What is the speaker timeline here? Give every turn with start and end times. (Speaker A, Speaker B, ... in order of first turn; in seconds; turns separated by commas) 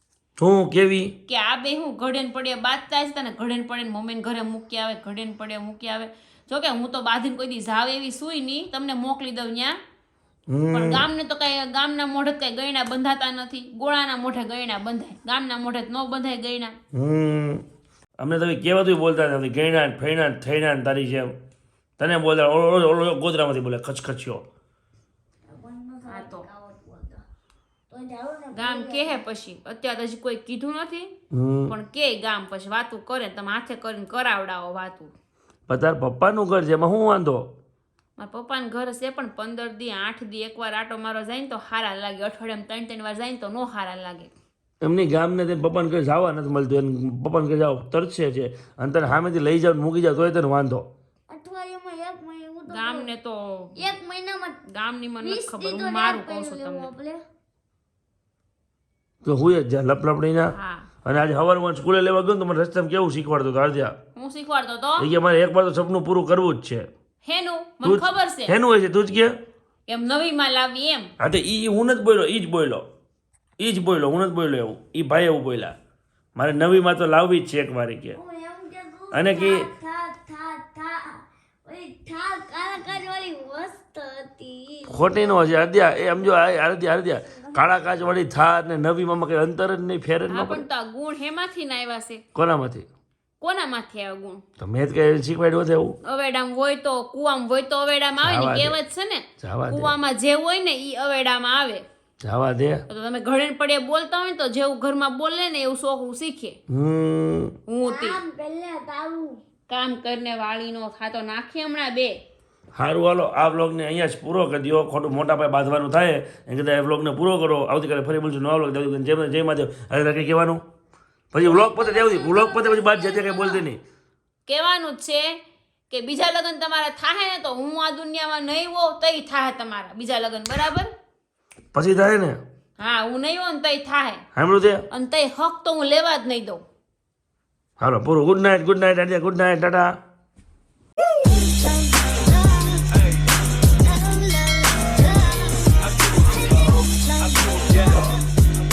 Speaker A: 0.4-1.1, Speaker B: 1.3-9.8, Speaker A: 10.5-11.1, Speaker B: 10.7-16.7, Speaker A: 16.9-17.6, Speaker A: 18.2-21.3, Speaker A: 22.0-24.4, Speaker C: 25.5-27.2, Speaker B: 26.1-26.4, Speaker C: 27.9-29.2, Speaker B: 28.5-31.1, Speaker A: 31.3-31.8, Speaker B: 31.7-35.1, Speaker A: 35.7-37.5, Speaker B: 38.2-44.3, Speaker A: 44.8-50.9, Speaker C: 51.3-53.1, Speaker B: 52.7-53.8, Speaker C: 53.8-54.6, Speaker B: 54.7-56.9, Speaker C: 55.2-57.2, Speaker A: 59.2-64.0, Speaker B: 60.5-60.9, Speaker B: 64.2-65.1, Speaker A: 65.0-66.9, Speaker B: 67.2-68.5, Speaker A: 67.8-69.3, Speaker B: 69.9-71.1, Speaker A: 71.2-72.9, Speaker A: 73.6-75.8, Speaker A: 76.4-78.2, Speaker C: 78.1-85.4, Speaker A: 79.1-79.7, Speaker A: 84.9-90.7, Speaker B: 90.3-92.2, Speaker A: 92.3-92.9, Speaker B: 93.4-94.4, Speaker A: 94.6-96.0, Speaker B: 96.0-101.8, Speaker A: 98.2-98.8, Speaker A: 99.4-100.0, Speaker A: 102.2-102.8, Speaker B: 102.9-106.6, Speaker A: 106.7-107.5, Speaker B: 107.7-108.2, Speaker C: 107.8-109.4, Speaker B: 109.7-112.2, Speaker A: 112.7-120.6, Speaker A: 121.3-123.8, Speaker C: 121.4-123.7, Speaker B: 124.5-125.4, Speaker B: 125.9-130.9, Speaker A: 131.7-132.4, Speaker B: 132.8-134.2, Speaker A: 134.3-134.8, Speaker B: 134.9-136.6, Speaker A: 137.8-140.0, Speaker C: 141.3-143.0, Speaker C: 143.8-145.5, Speaker C: 146.2-148.1